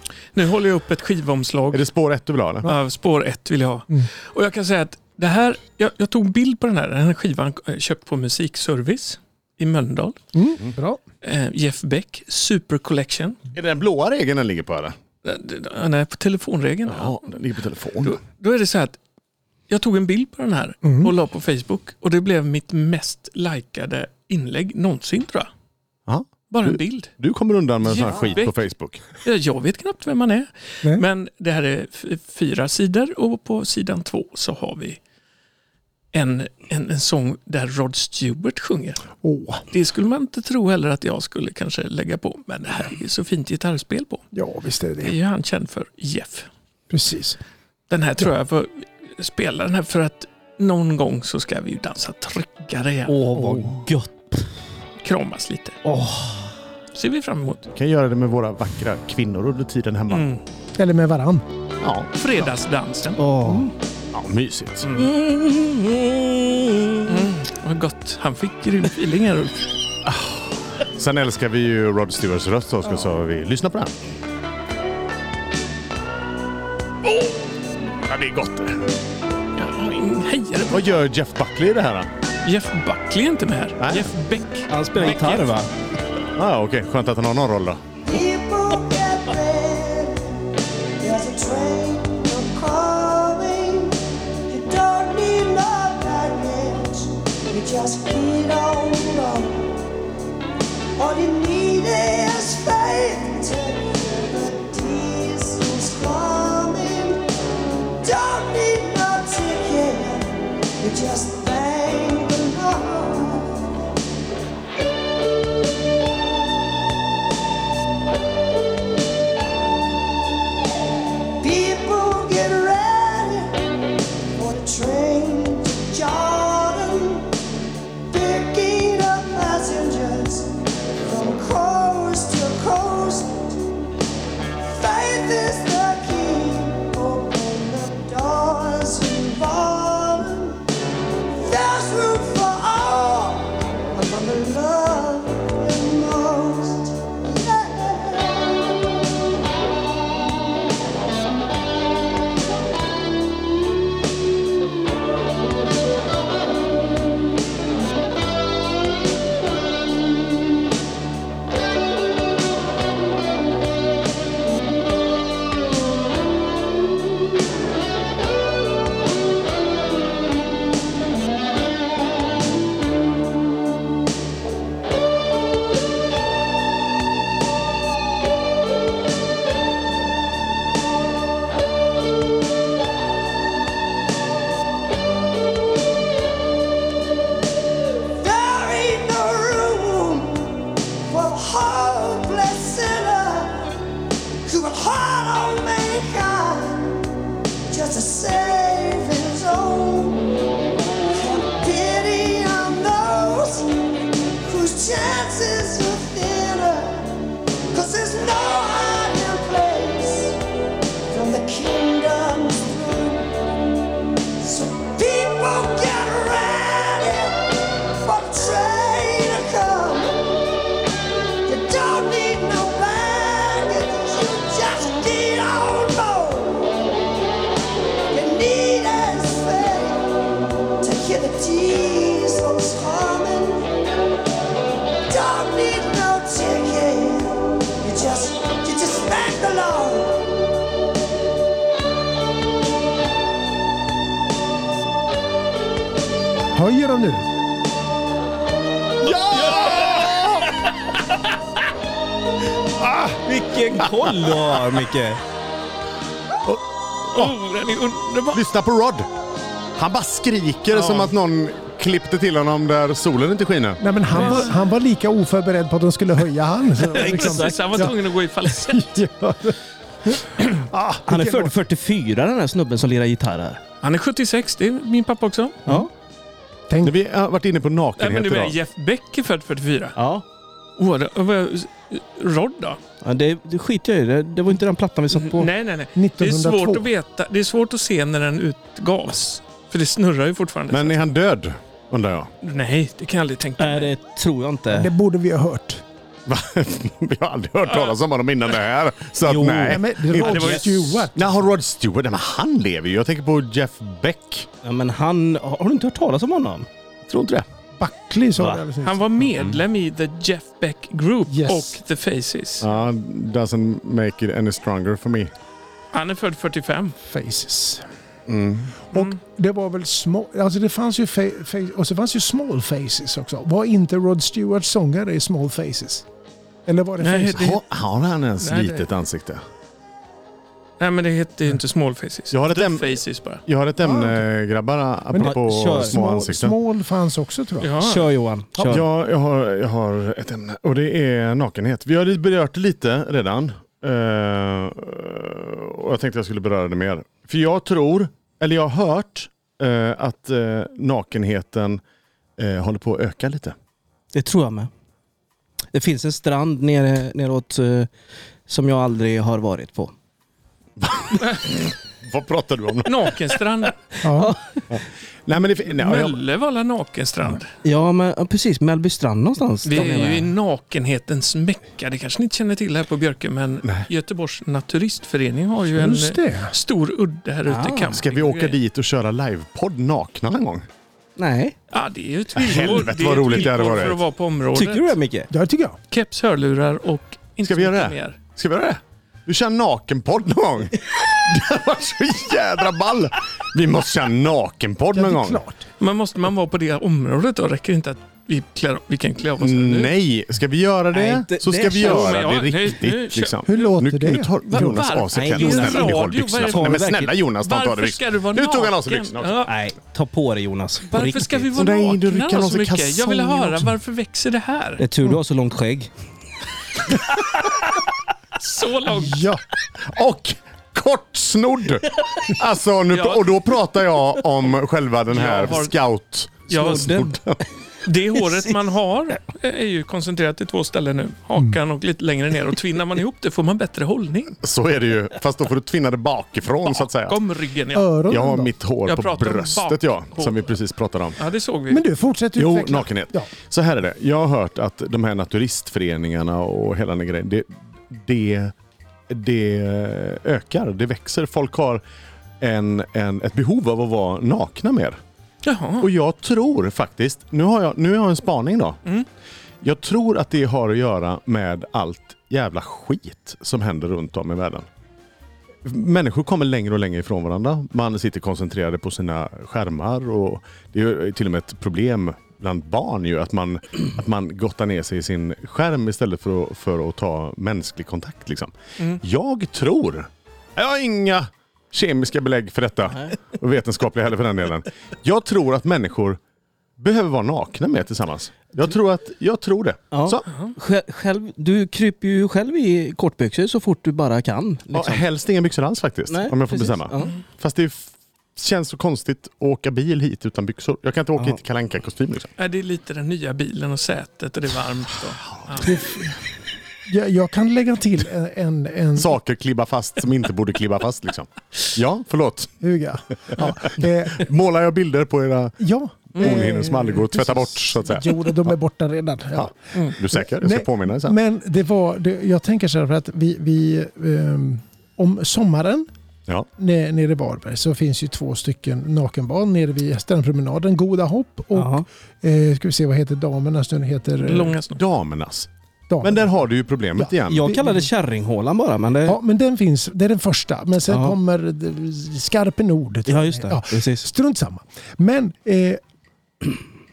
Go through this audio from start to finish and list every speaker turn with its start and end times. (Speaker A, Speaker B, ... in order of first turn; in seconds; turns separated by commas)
Speaker A: 0.3-1.9, Speaker B: 1.7-2.7, Speaker A: 2.7-10.2, Speaker C: 10.3-11.0, Speaker A: 11.2-13.4, Speaker B: 13.5-15.0, Speaker A: 15.2-17.2, Speaker B: 16.9-18.2, Speaker A: 18.0-19.0, Speaker A: 19.7-25.5, Speaker C: 20.8-21.1, Speaker B: 26.1-29.0, Speaker A: 26.5-27.1, Speaker A: 27.8-35.0, Speaker A: 36.1-39.0, Speaker C: 39.2-39.6, Speaker A: 39.7-44.2, Speaker C: 44.3-45.2, Speaker A: 45.0-46.5, Speaker C: 46.9-47.4, Speaker A: 47.9-53.2, Speaker D: 53.1-54.5, Speaker C: 53.4-53.7, Speaker A: 55.0-55.8, Speaker D: 55.9-56.5, Speaker A: 56.9-57.7, Speaker B: 57.7-60.3, Speaker A: 60.1-60.4, Speaker C: 60.8-61.5, Speaker B: 61.8-62.1, Speaker A: 62.2-63.2, Speaker D: 63.2-63.7, Speaker C: 63.4-63.7, Speaker B: 64.1-64.9, Speaker A: 64.8-65.1, Speaker D: 65.0-67.3, Speaker A: 67.1-69.7, Speaker B: 70.0-74.0, Speaker B: 78.1-78.9, Speaker A: 79.6-81.0, Speaker B: 80.7-82.1, Speaker A: 82.4-85.5, Speaker B: 83.8-84.1, Speaker D: 84.7-85.7, Speaker B: 86.4-87.8, Speaker E: 88.1-90.4, Speaker E: 91.0-99.8, Speaker E: 101.0-107.3, Speaker E: 108.0-113.6, Speaker E: 121.4-123.6, Speaker E: 124.3-127.3, Speaker E: 128.1-133.6, Speaker E: 134.6-140.6, Speaker E: 141.4-148.7, Speaker E: 188.2-193.8, Speaker E: 194.4-196.9, Speaker E: 197.7-200.3, Speaker E: 201.1-203.7, Speaker E: 204.4-207.1, Speaker E: 207.7-210.4, Speaker E: 211.1-213.3, Speaker E: 214.4-220.2, Speaker E: 221.5-226.8, Speaker E: 228.1-230.1, Speaker E: 230.8-233.7, Speaker E: 235.1-240.3, Speaker C: 246.5-247.3, Speaker B: 249.0-250.6, Speaker B: 252.8-253.2, Speaker D: 253.2-255.2, Speaker B: 253.8-254.8, Speaker A: 257.1-258.4, Speaker B: 258.3-259.1, Speaker B: 259.8-263.8, Speaker A: 260.7-261.1, Speaker C: 263.8-271.5, Speaker A: 264.1-264.6, Speaker A: 266.9-269.0, Speaker D: 266.9-267.9, Speaker D: 271.1-273.6, Speaker A: 273.8-275.6, Speaker C: 276.7-276.9, Speaker B: 276.8-278.6, Speaker A: 278.0-279.9, Speaker D: 280.0-280.2, Speaker A: 280.8-282.8, Speaker D: 283.0-285.5, Speaker A: 285.1-291.0, Speaker C: 286.0-286.9, Speaker B: 290.7-292.3, Speaker A: 292.4-293.9, Speaker D: 293.6-294.9, Speaker C: 294.7-295.8, Speaker B: 296.3-304.5, Speaker A: 297.7-297.9, Speaker D: 299.2-300.7, Speaker C: 299.7-301.4, Speaker A: 300.2-300.8, Speaker D: 304.6-306.7, Speaker B: 307.1-307.5, Speaker C: 307.8-309.3, Speaker D: 308.4-308.6, Speaker A: 308.8-312.7, Speaker C: 311.3-311.8, Speaker B: 312.6-315.3, Speaker A: 315.9-317.0, Speaker C: 317.1-317.9, Speaker B: 318.3-318.8, Speaker A: 318.9-319.2, Speaker C: 318.9-326.1, Speaker C: 326.7-327.6, Speaker A: 327.0-327.6, Speaker B: 327.4-329.4, Speaker A: 328.4-328.9, Speaker A: 330.8-333.4, Speaker B: 332.3-336.6, Speaker C: 333.8-334.2, Speaker D: 335.1-336.0, Speaker C: 335.2-337.7, Speaker A: 337.6-338.1, Speaker D: 337.8-338.8, Speaker B: 338.7-351.8, Speaker B: 352.4-353.6, Speaker D: 354.1-354.7, Speaker D: 355.7-357.9, Speaker D: 358.5-359.9, Speaker B: 360.8-363.4, Speaker A: 361.2-361.5, Speaker A: 362.9-363.8, Speaker C: 364.0-364.3, Speaker D: 364.1-364.7, Speaker B: 364.7-366.2, Speaker A: 365.6-367.5, Speaker D: 367.6-370.3, Speaker A: 369.6-378.6, Speaker C: 375.7-376.6, Speaker D: 377.5-378.0, Speaker B: 377.9-380.7, Speaker D: 381.2-381.6, Speaker A: 381.7-385.0, Speaker B: 382.4-384.0, Speaker D: 384.5-385.3, Speaker C: 385.3-385.8, Speaker A: 385.9-388.2, Speaker B: 387.4-395.4, Speaker C: 394.9-395.6, Speaker A: 395.8-399.9, Speaker B: 399.4-409.4, Speaker D: 400.9-402.2, Speaker A: 401.8-403.7, Speaker C: 403.5-404.8, Speaker A: 404.5-406.9, Speaker D: 405.1-407.1, Speaker A: 407.4-409.5, Speaker D: 409.4-411.5, Speaker A: 410.9-414.8, Speaker B: 411.6-413.6, Speaker D: 414.8-415.9, Speaker A: 418.4-419.2, Speaker C: 418.9-419.4, Speaker B: 419.8-427.4, Speaker A: 422.9-423.4, Speaker A: 425.1-425.8, Speaker A: 426.5-426.9, Speaker D: 426.5-427.2, Speaker A: 427.8-434.4, Speaker B: 434.4-437.2, Speaker A: 436.6-438.0, Speaker C: 437.7-438.5, Speaker B: 438.1-441.2, Speaker A: 438.9-440.5, Speaker A: 441.2-441.9, Speaker C: 441.7-443.3, Speaker B: 442.4-448.5, Speaker B: 449.1-451.8, Speaker B: 452.4-455.0, Speaker A: 455.4-455.9, Speaker B: 455.8-458.8, Speaker B: 459.6-464.7, Speaker B: 465.6-486.2, Speaker B: 486.8-490.3, Speaker D: 489.9-495.1, Speaker A: 490.3-490.5, Speaker B: 494.7-502.3, Speaker D: 496.1-497.1, Speaker A: 502.4-505.8, Speaker B: 505.4-505.8, Speaker C: 505.6-506.2, Speaker C: 506.9-509.2, Speaker B: 509.0-512.5, Speaker C: 512.6-514.3, Speaker B: 513.3-515.6, Speaker C: 515.6-525.9, Speaker B: 516.1-518.5, Speaker B: 519.4-521.2, Speaker C: 526.6-534.6, Speaker D: 531.5-531.9, Speaker A: 534.2-534.8, Speaker B: 534.7-535.5, Speaker C: 535.9-536.3, Speaker B: 536.0-537.5, Speaker C: 537.0-537.9, Speaker D: 537.2-539.2, Speaker C: 539.0-545.8, Speaker D: 540.9-541.1, Speaker D: 543.1-544.1